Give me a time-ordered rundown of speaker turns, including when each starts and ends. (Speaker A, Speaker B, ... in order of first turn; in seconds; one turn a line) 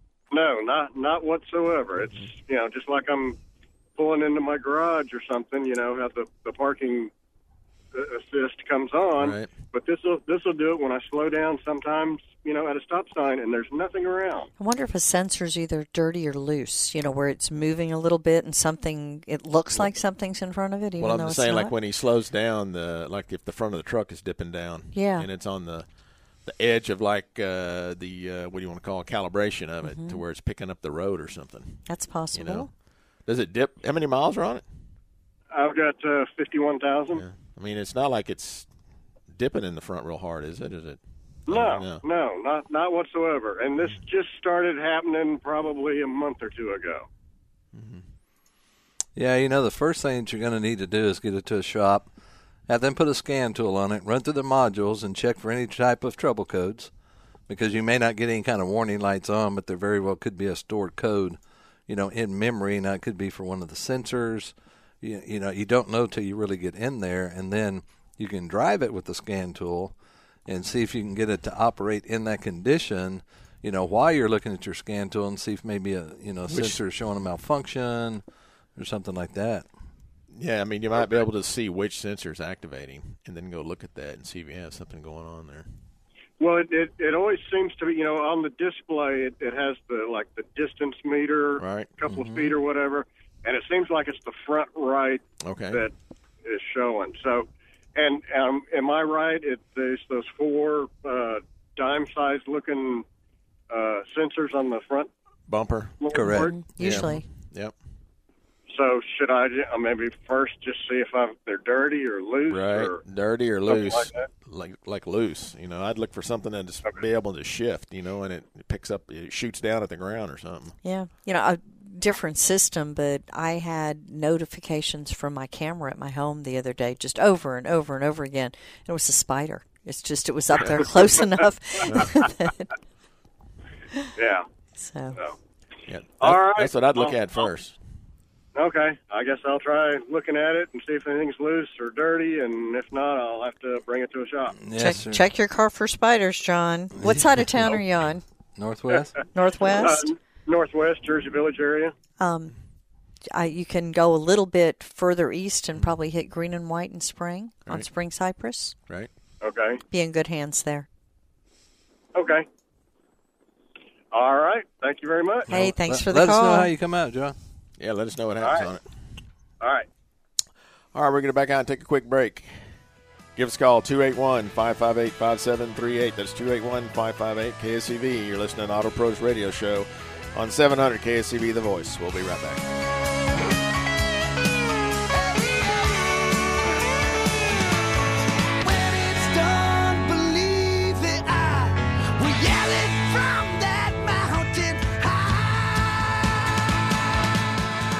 Speaker A: 0.3-3.4
Speaker A: 4.0-7.1
Speaker A: 7.9-14.5
Speaker B: 9.2-9.5
Speaker C: 14.6-21.7
Speaker B: 21.0-25.9
Speaker C: 24.9-25.3
Speaker B: 26.4-32.7
Speaker C: 29.8-30.2
Speaker C: 31.9-32.7
Speaker B: 33.2-34.6
Speaker A: 35.5-37.2
Speaker B: 37.1-38.7
Speaker B: 39.3-42.0
Speaker A: 41.5-47.1
Speaker B: 47.7-48.0
Speaker D: 49.1-52.1
Speaker D: 52.7-56.9
Speaker D: 57.5-69.9
Speaker D: 70.5-78.2
Speaker B: 76.5-76.8
Speaker D: 78.8-79.7
Speaker B: 80.3-85.7
Speaker A: 86.4-95.9
Speaker B: 91.6-92.0
Speaker D: 92.1-92.5
Speaker B: 95.4-95.8
Speaker A: 96.4-103.0
Speaker A: 103.7-105.1
Speaker B: 105.5-106.0
Speaker A: 106.0-106.6
Speaker D: 106.1-106.5
Speaker C: 106.3-107.2
Speaker B: 106.8-107.7
Speaker A: 108.7-113.0
Speaker B: 112.5-120.8
Speaker A: 113.7-114.3
Speaker C: 120.8-132.6
Speaker B: 130.5-130.8
Speaker A: 134.2-134.4
Speaker C: 134.8-135.2
Speaker B: 135.9-137.8
Speaker A: 136.2-137.4
Speaker A: 138.5-144.6
Speaker D: 144.6-145.2
Speaker C: 144.8-148.2
Speaker D: 147.0-147.8
Speaker D: 148.6-149.2
Speaker A: 148.9-151.9
Speaker C: 149.3-150.1
Speaker C: 152.2-152.5
Speaker C: 153.3-158.7
Speaker A: 159.4-159.8
Speaker C: 159.9-160.9
Speaker A: 162.1-162.5
Speaker A: 164.1-165.5
Speaker D: 165.5-167.3
Speaker C: 165.5-166.7
Speaker B: 167.8-168.8
Speaker A: 168.4-168.7
Speaker A: 169.6-169.9
Speaker B: 170.9-172.5
Speaker B: 173.3-182.6
Speaker E: 185.1-187.6
Speaker E: 188.6-196.4